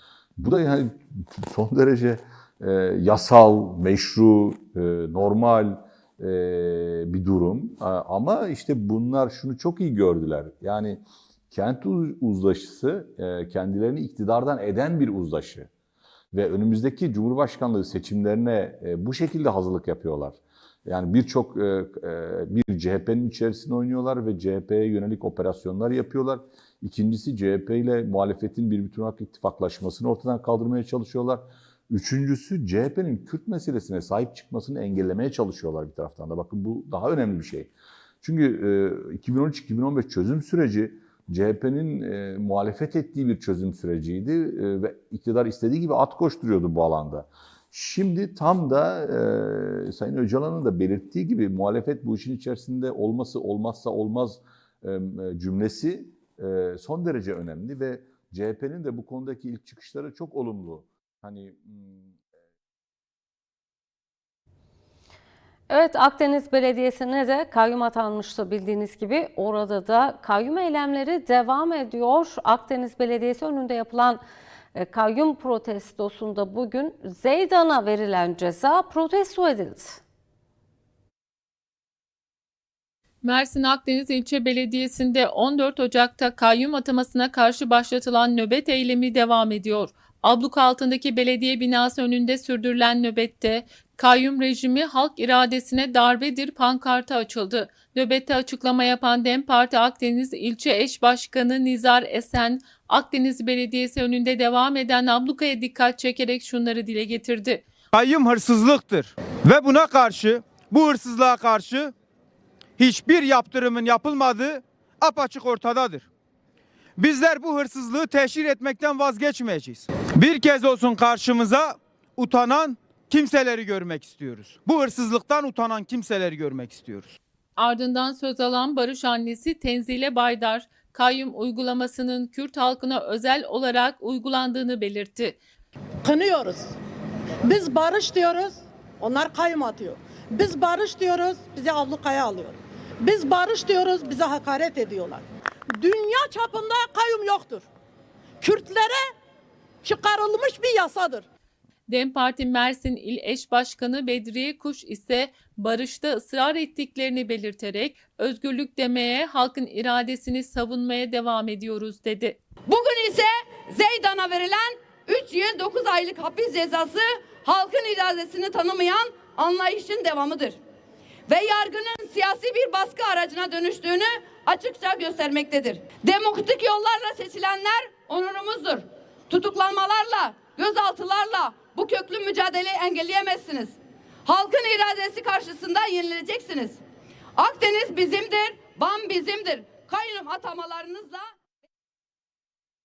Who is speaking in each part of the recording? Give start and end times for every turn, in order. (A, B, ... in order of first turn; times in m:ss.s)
0:00.4-0:15.7 A
0:16.3-1:02.1 A
1:05.7-1:14.2 B
1:14.7-1:20.0 B
1:23.2-1:47.6 C
1:47.9-1:51.9 D
1:52.8-1:56.1 D
1:57.0-2:07.1 D
2:07.6-2:15.4 C
2:16.0-2:16.7 E
2:17.4-2:25.2 E
2:25.8-2:27.7 E
2:28.4-2:29.1 E
2:29.8-2:31.2 E
2:31.9-2:42.4 C
2:42.7-2:50.6 F
2:51.3-3:06.8 F
3:07.4-3:11.3 F